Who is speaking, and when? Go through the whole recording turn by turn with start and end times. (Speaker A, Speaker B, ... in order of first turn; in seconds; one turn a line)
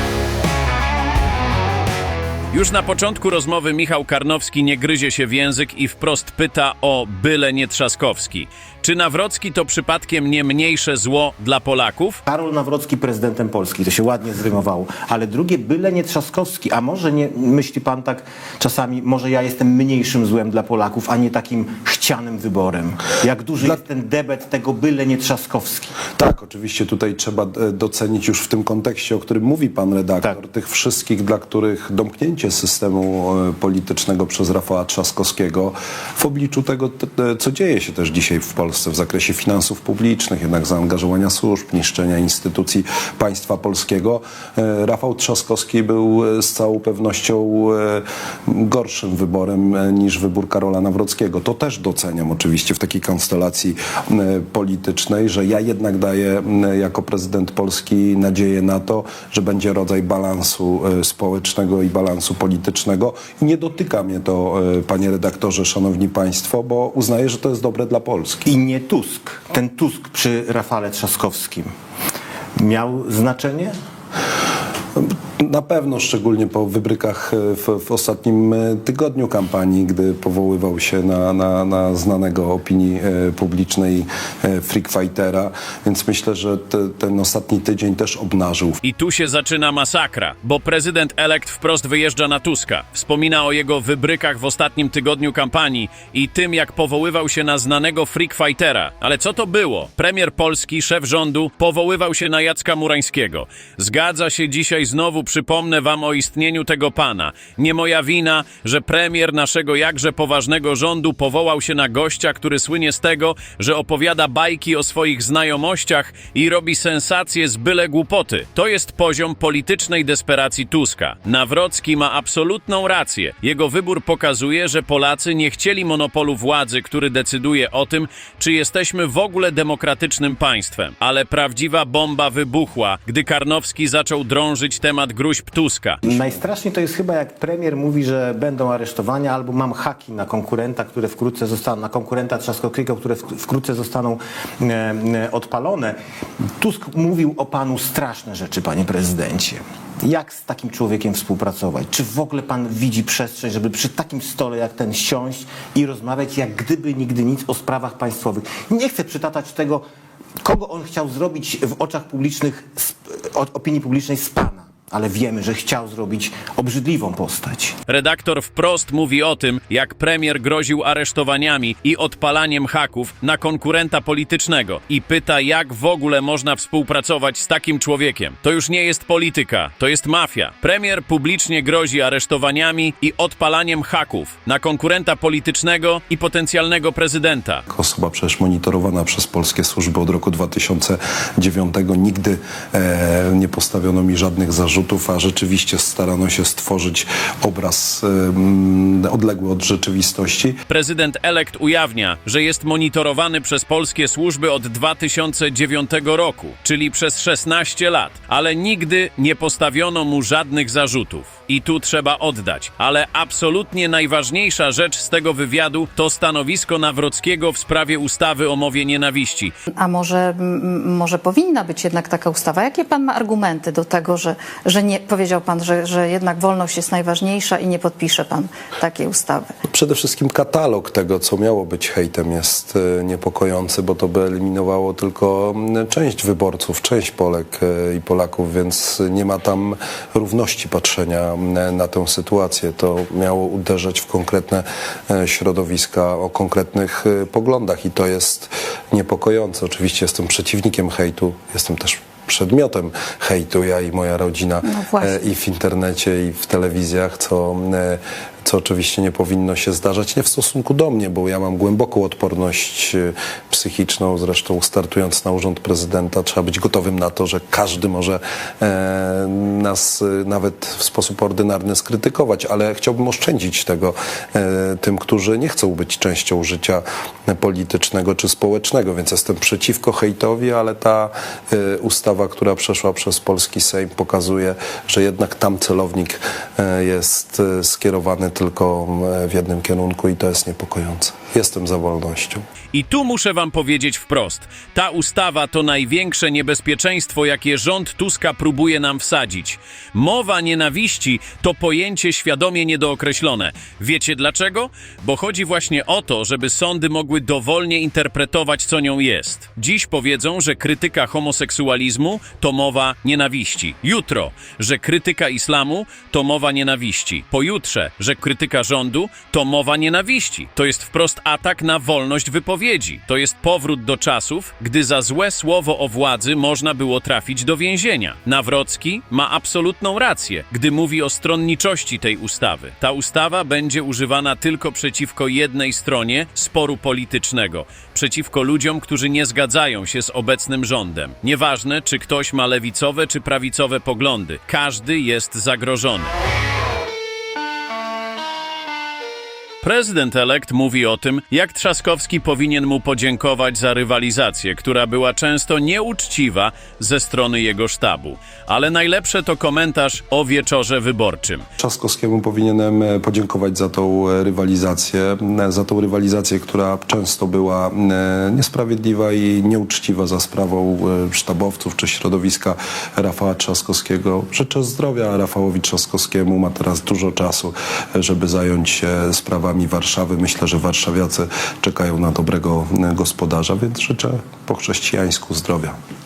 Speaker A: 2.5-12.2
Speaker B: 12.3-25.9
Speaker C: 26.2-68.5
Speaker B: 68.5-71.7
Speaker B: 72.6-73.7
Speaker C: 75.0-88.8
Speaker A: 88.8-136.2
Speaker B: 136.0-146.0
Speaker B: 146.6-159.8
Speaker B: 160.4-167.8
Speaker A: 167.9-187.6
Speaker C: 187.7-200.6
Speaker A: 200.7-219.5
Speaker D: 219.8-229.5
Speaker C: 229.7-292.4
Speaker D: 254.6-255.2
Speaker A: 292.7-346.1
Speaker A: 349.6-361.4
Speaker C: 361.6-385.8